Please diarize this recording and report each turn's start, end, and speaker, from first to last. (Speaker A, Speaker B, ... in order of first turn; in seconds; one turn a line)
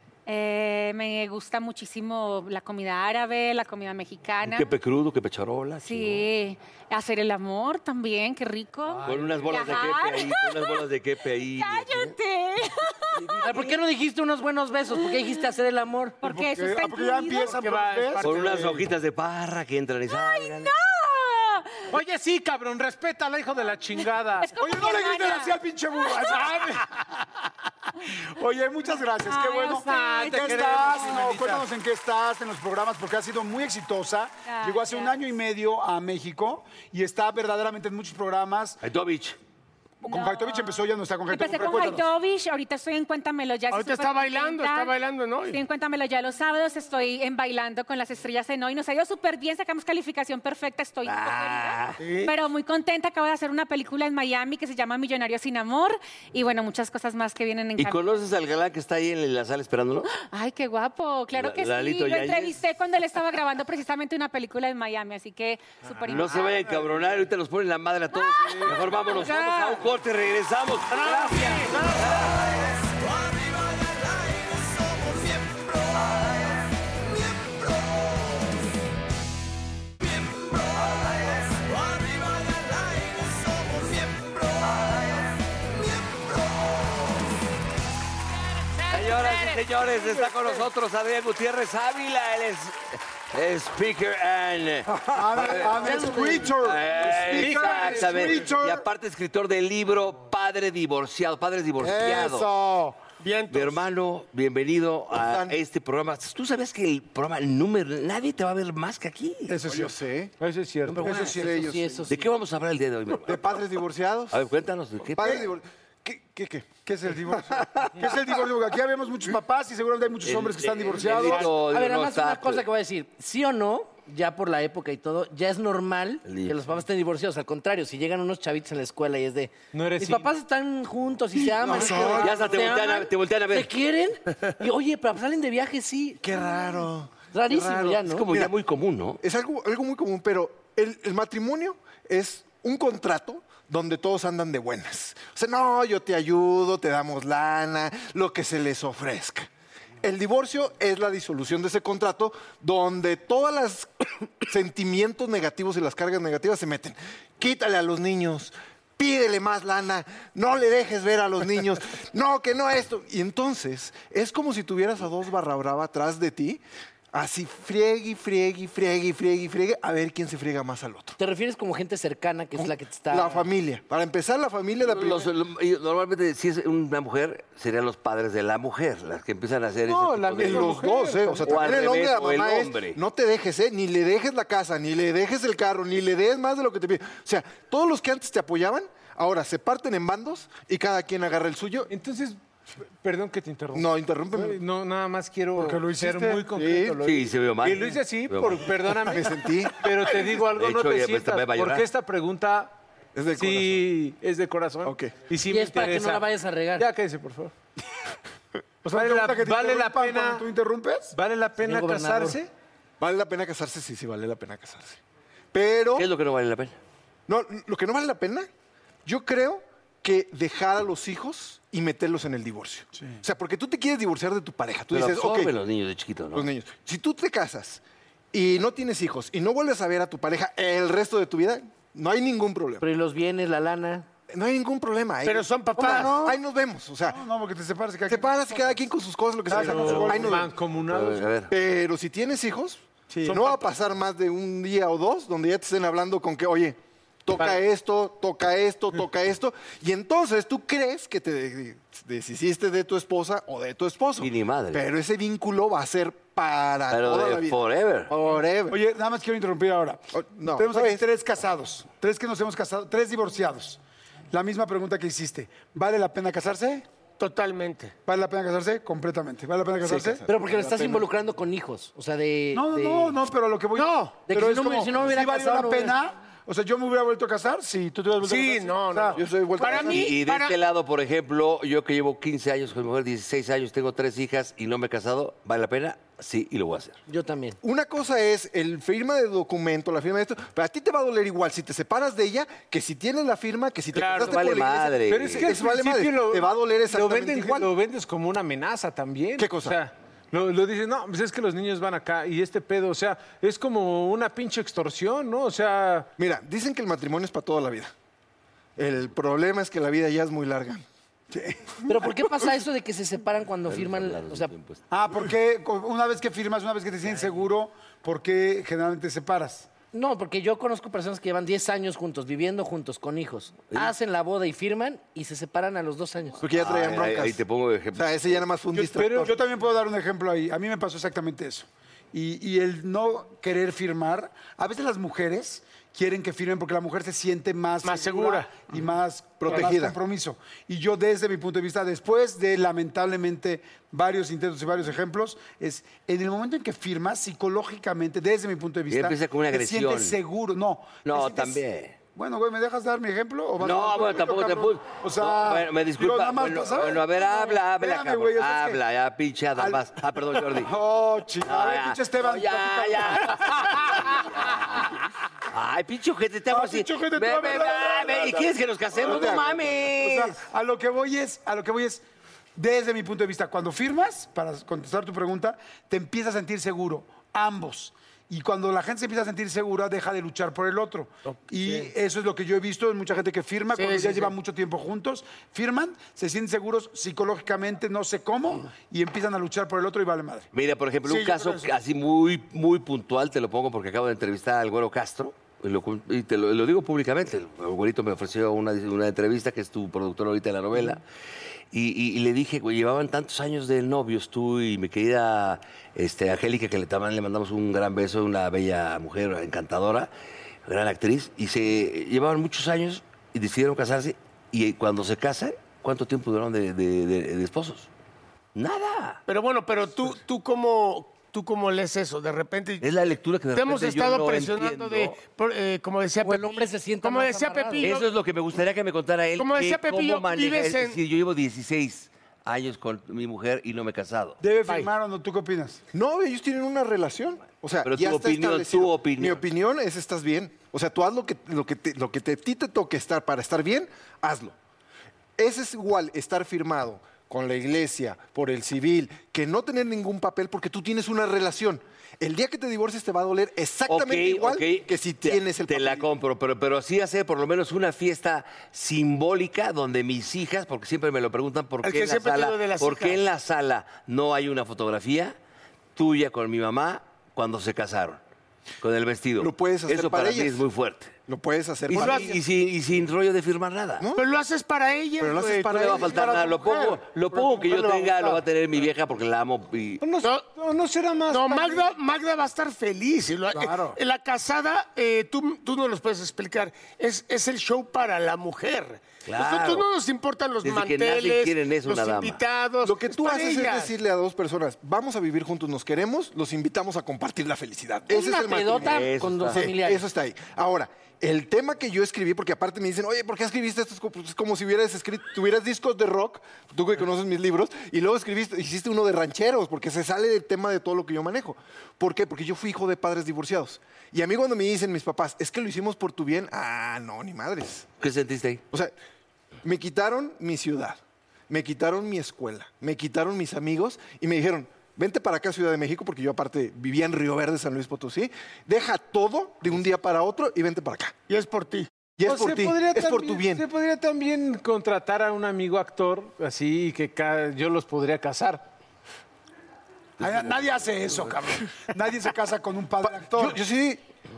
Speaker A: 0.3-4.7
Speaker B: 4.4-6.2
Speaker A: 5.8-10.8
Speaker C: 9.0-9.4
Speaker B: 9.0-12.1
Speaker A: 11.5-13.2
Speaker B: 13.1-13.8
Speaker D: 13.4-16.2
Speaker A: 16.2-17.6
Speaker E: 16.2-18.8
Speaker F: 17.5-18.8
Speaker B: 18.2-20.7
Speaker A: 20.1-21.9
Speaker C: 21.9-24.5
Speaker A: 24.0-26.4
Speaker E: 24.6-27.2
Speaker E: 28.3-38.8
Speaker A: 29.2-31.1
Speaker C: 30.0-31.6
Speaker A: 34.4-35.1
Speaker B: 38.8-39.4
Speaker E: 40.0-42.1
Speaker A: 40.0-45.0
Speaker F: 43.7-45.6
Speaker A: 45.5-58.0
Speaker B: 51.0-52.0
Speaker F: 52.0-52.3
Speaker B: 57.8-60.1
Speaker A: 60.1-66.6
Speaker B: 61.3-62.6
Speaker C: 66.1-66.6
Speaker B: 66.1-72.8
Speaker A: 68.1-68.7
Speaker D: 69.1-69.8
Speaker F: 70.9-72.0
Speaker B: 88.9-102.5
Speaker C: 90.0-90.6
Speaker E: 94.9-98.8
Speaker G: 95.6-96.0
Speaker C: 97.3-98.1
Speaker E: 101.8-103.0
Speaker F: 103.2-103.8
Speaker B: 103.5-109.6
Speaker G: 105.1-105.6
Speaker E: 109.5-109.9
Speaker G: 109.6-110.3
Speaker C: 110.4-111.3
Speaker B: 110.9-111.5
Speaker D: 111.0-112.3
Speaker G: 111.0-112.0
Speaker B: 112.0-113.6
Speaker G: 113.2-114.4
Speaker B: 114.3-115.5
Speaker G: 115.2-116.7
Speaker E: 116.8-121.5
Speaker B: 120.2-122.6
Speaker D: 121.0-136.2
Speaker B: 126.2-126.8
Speaker C: 129.7-130.3
Speaker G: 131.5-132.7
Speaker B: 132.1-133.7
Speaker G: 136.2-138.5
Speaker D: 137.3-138.3
Speaker B: 137.5-139.2
Speaker G: 139.2-149.5
Speaker G: 150.0-166.6
Speaker G: 167.1-171.2
Speaker D: 171.2-173.5
Speaker G: 172.6-175.3
Speaker B: 174.8-180.8
Speaker C: 179.8-181.7
Speaker G: 180.4-191.9
Speaker B: 181.4-183.0
Speaker C: 191.9-192.4
Speaker C: 193.0-202.7
Speaker G: 193.7-194.6
Speaker E: 195.6-196.5
Speaker G: 196.5-197.0
Speaker B: 197.0-198.7
Speaker G: 199.0-200.0
Speaker B: 200.5-201.8
Speaker G: 203.1-203.8
Speaker C: 203.3-206.2
Speaker G: 204.8-205.2
Speaker D: 205.4-206.9
Speaker C: 206.8-207.5
Speaker C: 208.8-210.4
Speaker E: 208.8-211.1
Speaker C: 211.1-212.5
Speaker D: 211.6-212.4
Speaker G: 213.0-215.0
Speaker G: 215.5-216.1
Speaker B: 215.9-216.8
Speaker G: 217.3-218.5
Speaker G: 219.1-225.5
Speaker B: 224.9-226.5
Speaker G: 226.3-227.8
Speaker G: 228.3-232.8
Speaker D: 232.8-234.1
Speaker G: 234.3-237.2
Speaker F: 235.2-236.3
Speaker E: 235.8-236.3
Speaker E: 237.1-238.8
Speaker G: 238.1-240.5
Speaker E: 239.5-240.4
Speaker C: 239.5-241.3
Speaker B: 239.7-240.3
Speaker B: 240.8-241.5
Speaker G: 241.5-258.8
Speaker E: 243.1-243.4
Speaker F: 243.3-243.6
Speaker B: 254.2-254.8
Speaker B: 256.9-258.1
Speaker E: 258.7-263.8
Speaker G: 260.1-261.0
Speaker E: 264.3-266.9
Speaker F: 267.2-267.9
Speaker E: 268.1-270.2
Speaker G: 269.8-271.1
Speaker D: 270.2-273.2
Speaker E: 272.5-279.9
Speaker F: 273.7-274.2
Speaker D: 274.2-275.9
Speaker F: 278.2-280.6
Speaker G: 279.1-280.1
Speaker B: 279.9-287.0
Speaker D: 287.1-287.6
Speaker G: 287.6-297.7
Speaker B: 293.9-295.5
Speaker C: 295.1-306.1
Speaker G: 299.4-299.8
Speaker G: 306.2-307.9
Speaker G: 308.8-310.8
Speaker E: 311.3-312.1
Speaker D: 311.9-314.5
Speaker B: 313.6-314.8
Speaker E: 314.9-319.7
Speaker D: 319.9-326.4
Speaker G: 326.4-327.4
Speaker B: 326.6-328.4
Speaker G: 327.9-329.3
Speaker C: 328.7-329.3
Speaker E: 329.2-351.6
Speaker F: 337.8-338.8
Speaker G: 339.4-340.0
Speaker B: 348.9-350.2
Speaker B: 351.0-351.9
Speaker E: 352.1-358.8
Speaker B: 353.6-360.7
Speaker E: 360.4-364.9
Speaker B: 361.4-364.9
Speaker B: 365.5-370.4
Speaker E: 366.5-372.0
Speaker E: 372.6-390.5
Speaker F: 381.3-381.9
Speaker F: 383.7-384.3
Speaker B: 390.5-401.0
Speaker F: 391.0-391.7
Speaker B: 401.7-410.1
Speaker B: 410.6-417.9
Speaker B: 418.5-419.2
Speaker F: 419.3-422.9
Speaker B: 422.8-425.2
Speaker F: 423.5-428.1
Speaker D: 426.2-427.9
Speaker B: 427.8-434.4
Speaker F: 429.4-431.0
Speaker E: 434.4-435.8
Speaker G: 435.9-444.5
Speaker B: 437.8-439.4
Speaker G: 445.4-456.1
Speaker B: 453.9-465.4
Speaker F: 461.8-463.2
Speaker B: 465.9-468.2
Speaker B: 468.8-471.1
Speaker G: 469.4-470.6
Speaker G: 471.3-472.4
Speaker B: 471.9-474.1
Speaker F: 471.9-472.3
Speaker F: 474.1-476.1
Speaker G: 475.2-476.5
Speaker B: 475.7-480.0
Speaker E: 476.0-478.4
Speaker C: 480.0-481.9
Speaker F: 480.2-480.5
Speaker F: 481.3-493.9
Speaker E: 483.5-484.0
Speaker B: 489.2-489.9
Speaker B: 490.6-492.4
Speaker G: 492.8-517.9
Speaker D: 498.1-500.1
Speaker B: 498.6-499.6
Speaker B: 518.0-518.6
Speaker G: 519.6-531.1
Speaker F: 531.3-531.9
Speaker G: 532.2-533.6
Speaker C: 532.2-538.6
Speaker E: 540.2-543.6
Speaker G: 543.3-544.0